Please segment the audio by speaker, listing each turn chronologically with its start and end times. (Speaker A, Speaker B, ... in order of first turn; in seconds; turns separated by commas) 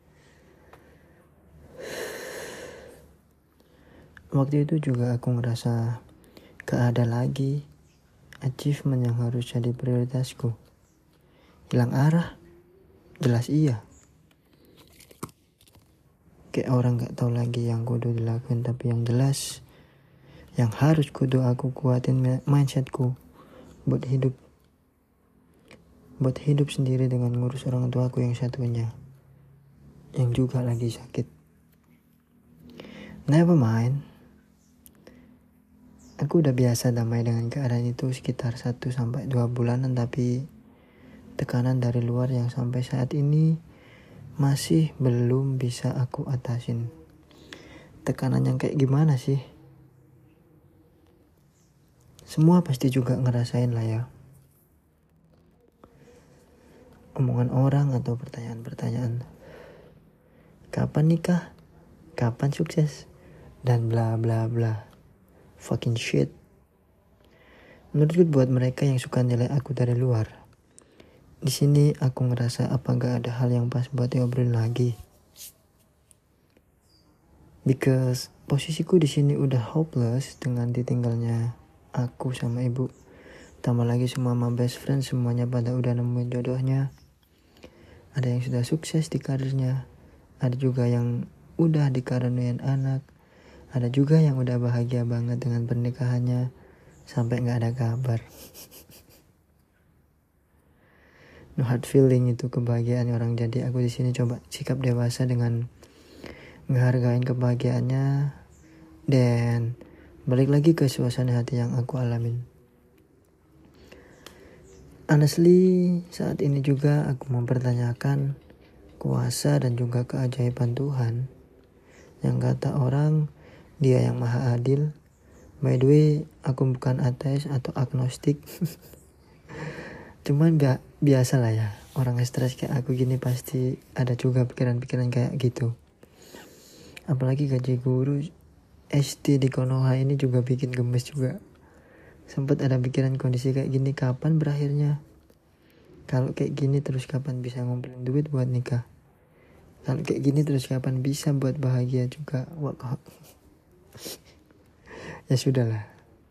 Speaker A: 4.3-6.0, Speaker A: 6.7-7.6, Speaker A: 8.4-10.6, Speaker A: 11.7-12.3, Speaker A: 13.2-13.8, Speaker A: 16.5-19.6, Speaker A: 20.6-23.1, Speaker A: 23.9-24.4, Speaker A: 26.2-28.9, Speaker A: 30.2-31.3, Speaker A: 33.3-34.0, Speaker A: 36.2-40.5, Speaker A: 41.4-43.6, Speaker A: 44.4-46.9, Speaker A: 48.1-49.4, Speaker A: 52.3-54.1, Speaker A: 57.2-59.2, Speaker A: 60.7-61.5, Speaker A: 62.2-63.1, Speaker A: 63.6-64.9, Speaker A: 65.6-66.3, Speaker A: 68.0-70.3, Speaker A: 71.4-75.0, Speaker A: 77.7-82.9, Speaker A: 83.6-86.9, Speaker A: 88.2-89.8, Speaker A: 90.4-93.0, Speaker A: 93.8-96.5, Speaker A: 97.1-98.2, Speaker A: 101.6-105.7, Speaker A: 106.7-108.3, Speaker A: 109.1-109.7, Speaker A: 110.3-112.5, Speaker A: 115.1-118.3, Speaker A: 119.0-121.3, Speaker A: 122.2-123.2, Speaker A: 123.8-124.9, Speaker A: 125.6-128.4, Speaker A: 130.3-135.7, Speaker A: 137.1-138.3, Speaker A: 138.9-141.4, Speaker A: 142.3-145.0, Speaker A: 146.1-148.8, Speaker A: 149.9-153.0, Speaker A: 155.3-155.9